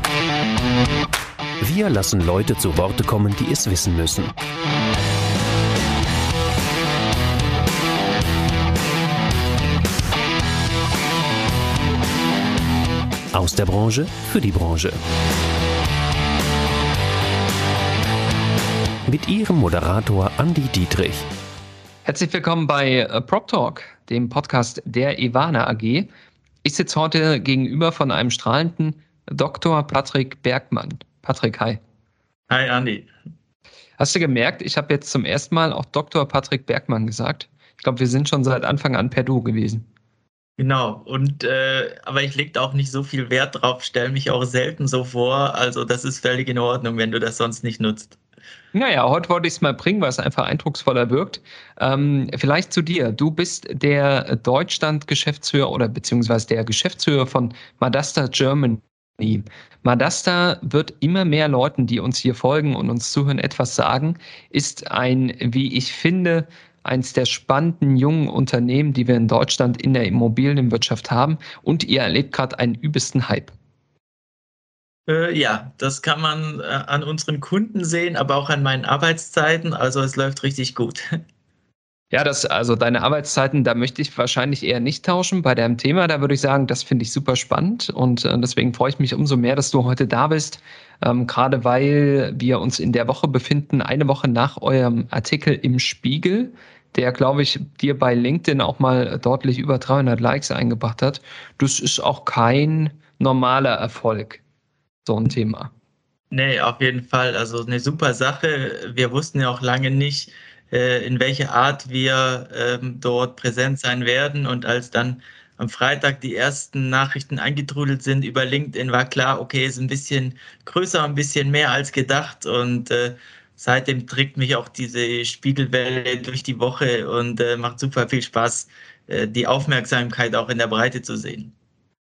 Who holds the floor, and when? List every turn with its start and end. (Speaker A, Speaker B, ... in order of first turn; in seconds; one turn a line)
Speaker A: 1.6-4.3
Speaker A: 13.3-15.0
Speaker A: 19.1-21.3
Speaker B: 22.1-26.1
Speaker B: 26.6-31.8
Speaker C: 32.5-33.1
Speaker B: 34.0-39.9
Speaker C: 40.6-48.2
Speaker B: 48.7-73.5
Speaker C: 75.1-81.1
Speaker B: 82.1-104.4
Speaker B: 105.1-105.7
Speaker C: 106.3-131.5